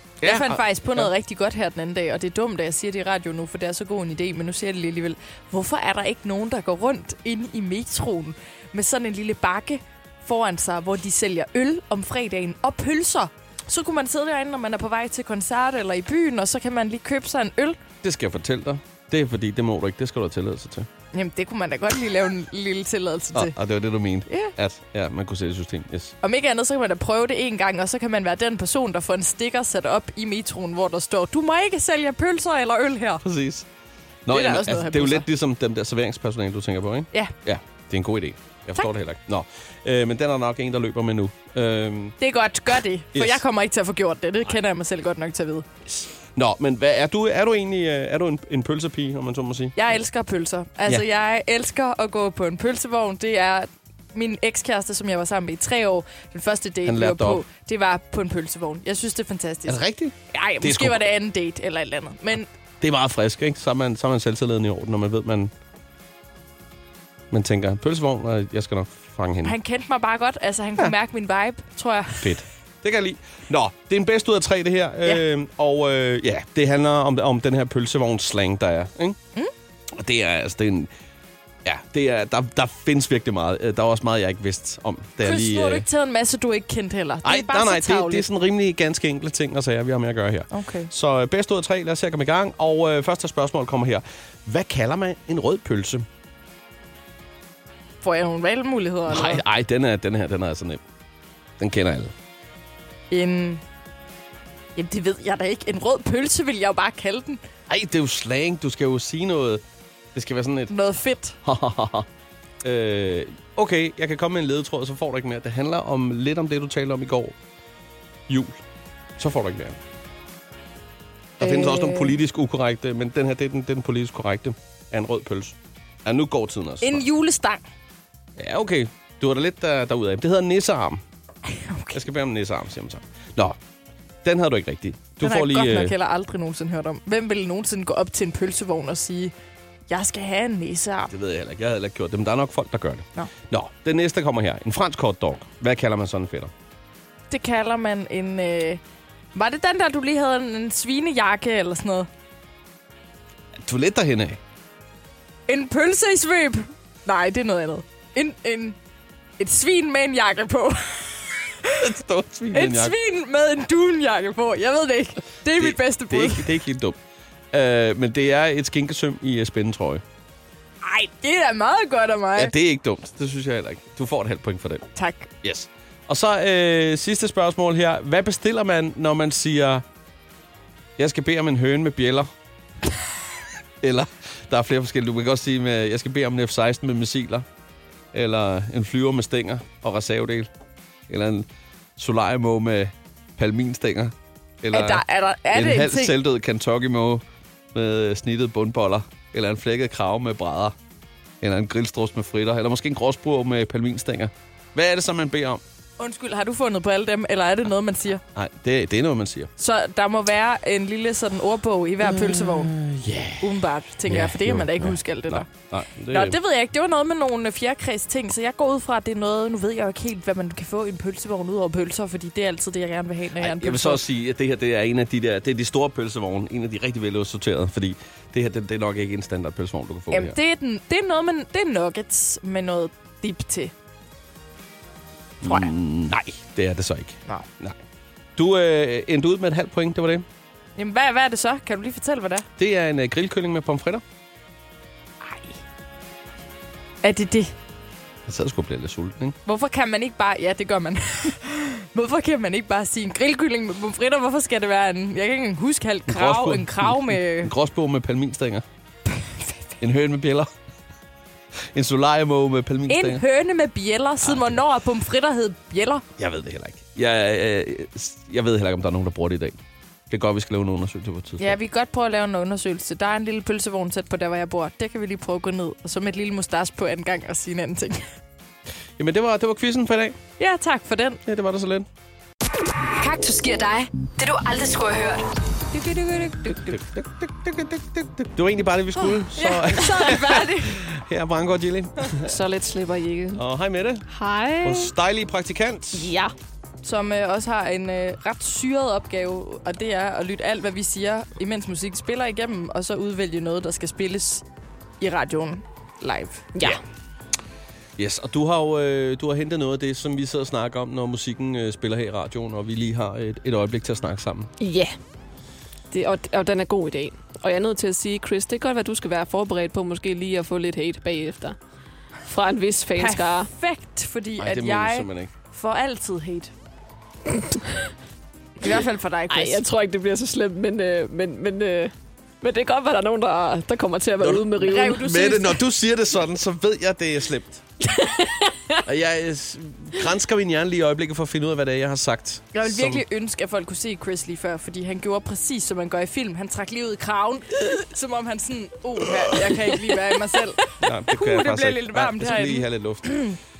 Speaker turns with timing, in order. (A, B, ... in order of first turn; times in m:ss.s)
0:00.2-0:01.1 A
0:00.2-0:17.8 B
0:18.0-0:20.9 A
0:21.1-0:23.6 B
0:23.3-0:26.2 A
0:24.3-0:24.5 B
0:26.2-0:33.2 B
0:33.2-0:33.7 A
0:34.3-0:42.2 A
0:34.3-0:35.3 B
0:42.2-0:45.7 B
0:43.2-0:43.4 A
0:45.9-0:49.9 A
0:49.8-1:02.5 B
0:56.9-0:57.4 A
0:59.7-1:01.1 A
1:02.8-1:05.5 A
1:07.3-1:09.6 A
1:09.4-1:12.3 B
1:12.2-1:19.2 A
1:20.0-1:20.9 A
1:21.6-1:25.8 A
1:25.2-1:28.2 B
1:27.2-1:36.0 A
1:30.5-1:30.9 B
1:38.0-1:39.4 B
1:39.1-1:40.8 A
1:41.6-1:42.1 A
1:43.1-1:43.6 B
1:44.8-1:47.4 B
1:47.7-1:49.6 A
1:50.2-1:50.7 A
1:50.7-1:51.4 B
1:51.4-1:52.1 A
1:52.6-1:57.4 A
1:58.3-1:58.6 A
1:59.2-1:59.8 A
2:01.4-2:07.0 A
2:01.4-2:02.2 B
2:06.8-2:07.6 B
2:08.4-2:11.0 A
2:11.5-2:12.0 B
2:11.9-2:13.6 A
2:14.2-2:15.9 A
2:15.2-2:19.3 B
2:19.9-2:21.1 B
2:21.1-2:26.5 A
2:27.3-2:28.8 B
2:29.3-2:32.1 B
2:33.6-2:34.4 A
2:35.5-2:38.8 B
2:39.4-2:41.8 B
2:41.8-2:43.0 A
2:42.5-2:46.5 B
2:45.6-2:47.0 A
2:47.5-2:50.0 A
2:50.8-2:52.5 B
2:52.4-2:54.9 A
2:55.0-2:55.3 B
2:55.4-2:59.8 A
3:01.0-3:02.3 A
3:03.8-3:07.4 A
3:08.1-3:10.5 A
3:11.1-3:11.5 A
3:12.0-3:17.2 A
3:14.7-3:16.1 B
3:17.7-3:20.7 A
3:21.4-3:25.6 A
3:26.0-3:28.2 B
3:28.4-3:29.5 A
3:29.6-3:32.7 B
3:32.0-3:36.4 A
3:33.4-3:35.5 B
3:36.1-3:44.0 B
3:43.4-3:50.4 A
3:50.1-3:53.7 B
3:55.4-3:57.8 A
3:58.4-4:00.2 A
4:00.8-4:02.5 B
4:02.6-4:04.0 A
4:05.2-4:05.6 B
4:07.0-4:07.6 B
4:08.3-4:09.4 A
4:09.5-4:17.5 B
4:16.1-4:18.6 A
4:19.1-4:19.8 B
4:19.8-4:20.5 A
4:21.7-4:23.2 A
4:22.9-4:26.0 B
4:24.2-4:24.6 A
4:26.2-4:29.6 A
4:30.1-4:31.6 A
4:31.4-4:38.1 B
4:39.0-4:40.2 A
4:40.4-4:41.2 B
4:41.3-4:41.9 A
4:42.9-4:45.2 C
4:45.7-4:46.7 B
4:46.5-4:52.4 A
4:49.0-4:50.8 B
4:52.3-4:53.4 D
4:53.4-4:54.1 A
4:54.1-4:54.9 D
4:54.6-4:56.1 A
4:55.9-4:56.3 D
4:56.8-5:04.4 B
5:05.0-5:06.4 B
5:08.0-5:14.5 A
5:14.6-5:15.0 D
5:15.9-5:21.6 D
5:22.3-5:23.5 D
5:23.0-5:26.5 B
5:24.4-5:25.3 A
5:28.6-5:29.6 B
5:29.3-5:35.0 D
5:34.2-5:37.6 A
5:34.6-5:35.6 B
5:38.0-5:38.3 D
5:38.8-5:43.0 A
5:42.5-5:53.4 B
5:50.8-5:53.2 A